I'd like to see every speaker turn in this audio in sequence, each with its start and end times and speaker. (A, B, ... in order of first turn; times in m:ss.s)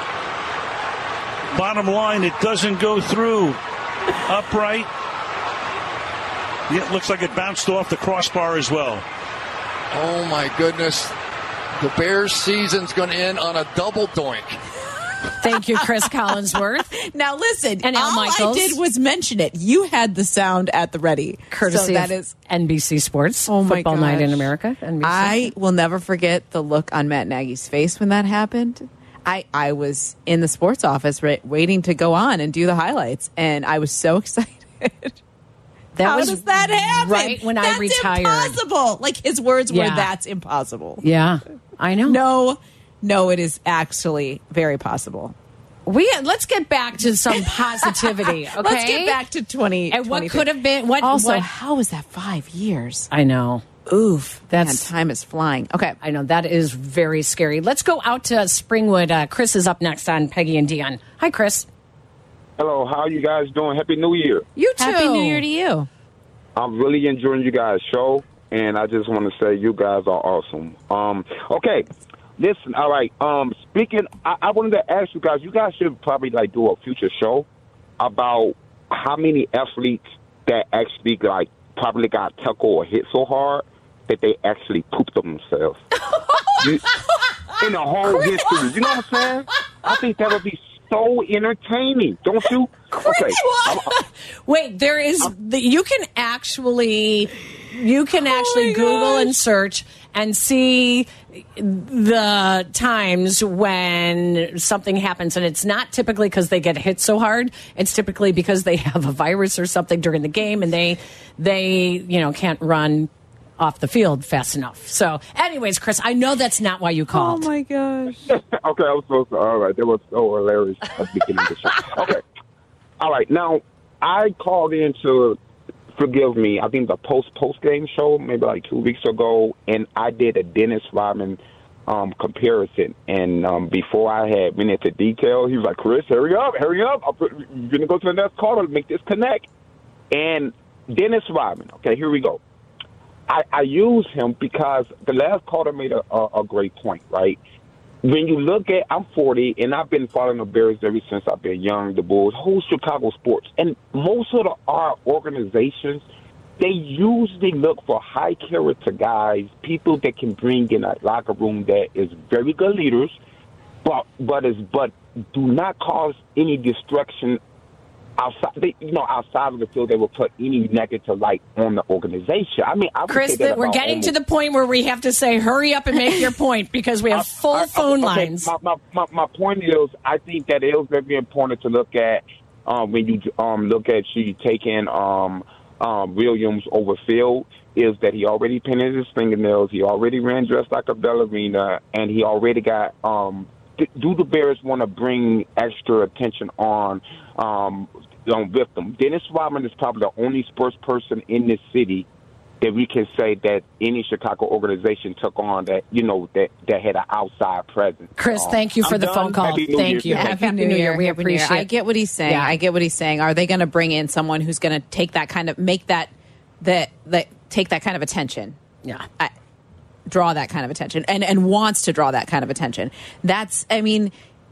0:01.5-0:03.6 A
0:04.2-0:04.9 A
0:06.7-0:09.0 A
0:09.9-0:11.1 B
0:11.8-0:14.6 B
0:15.4-0:16.9 C
0:16.8-0:22.3 D
0:17.8-0:18.8 C
0:21.5-0:25.5 C
0:23.5-0:24.5 D
0:25.0-0:35.2 D
0:35.9-0:38.6 C
0:36.0-0:41.0 D
0:39.7-0:40.1 C
0:41.0-0:42.2 C
0:42.0-0:45.3 D
0:45.8-0:49.2 C
0:47.3-0:53.1 D
0:49.9-0:51.4 C
0:53.1-0:53.6 C
0:53.9-0:56.0 D
0:54.5-0:54.9 C
0:56.0-1:01.7 C
1:02.6-1:04.5 E
1:04.6-1:05.4 C
1:04.6-1:05.9 D
1:06.6-1:11.8 E
1:12.4-1:17.4 E
1:18.0-1:25.8 E
1:26.1-1:26.7 C
1:26.6-1:26.9 E
1:27.6-1:33.9 E
1:28.0-1:28.7 C
1:32.9-1:57.5 C
1:38.2-1:39.3 D
1:57.1-1:58.3 D
1:58.3-2:02.2 E
2:03.0-2:05.4 E
2:06.0-2:19.5 E
2:20.1-2:22.4 E
2:23.3-2:27.4 E
2:28.0-2:36.0 E
2:36.6-2:43.2 E
2:43.8-2:47.4 E
2:48.2-2:54.1 E
2:53.1-2:58.5 C
2:57.1-3:22.0 E
3:22.6-3:30.4 E
3:28.2-3:31.7 C
3:30.0-3:38.6 D
3:32.2-3:32.5 C
3:40.1-3:44.1 D